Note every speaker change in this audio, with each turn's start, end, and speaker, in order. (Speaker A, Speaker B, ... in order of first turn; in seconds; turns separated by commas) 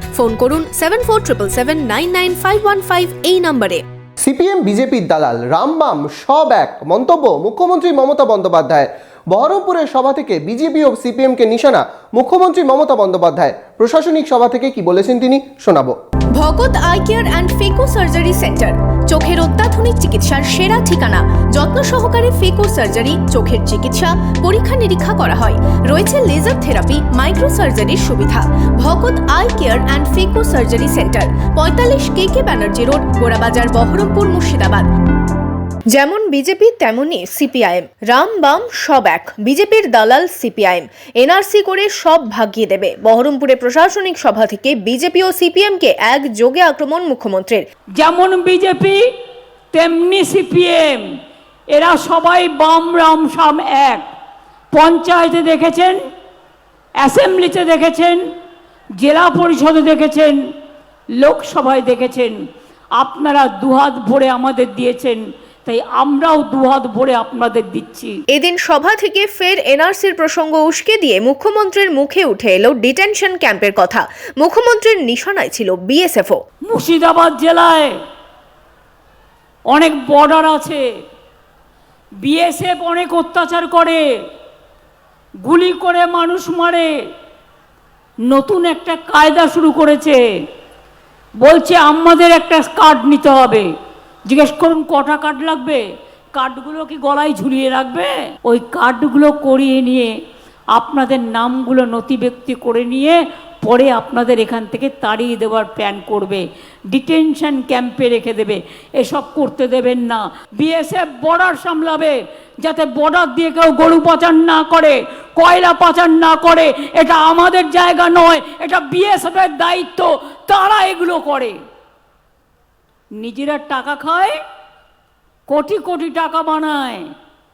Speaker A: 0.2-3.8, Speaker B: 4.2-15.9, Speaker A: 16.4-34.9, Speaker A: 35.9-47.6, Speaker C: 48.0-49.0, Speaker C: 49.7-51.0, Speaker C: 51.7-54.1, Speaker C: 54.7-56.0, Speaker C: 57.0-58.2, Speaker C: 59.0-60.4, Speaker C: 61.2-62.4, Speaker C: 63.0-68.2, Speaker A: 68.3-76.4, Speaker C: 76.7-77.9, Speaker C: 79.7-80.8, Speaker C: 82.2-84.0, Speaker C: 85.4-86.9, Speaker C: 88.3-90.2, Speaker C: 91.4-93.7, Speaker C: 94.3-95.8, Speaker C: 96.3-100.1, Speaker C: 100.8-121.6, Speaker C: 123.2-124.4, Speaker C: 125.5-127.1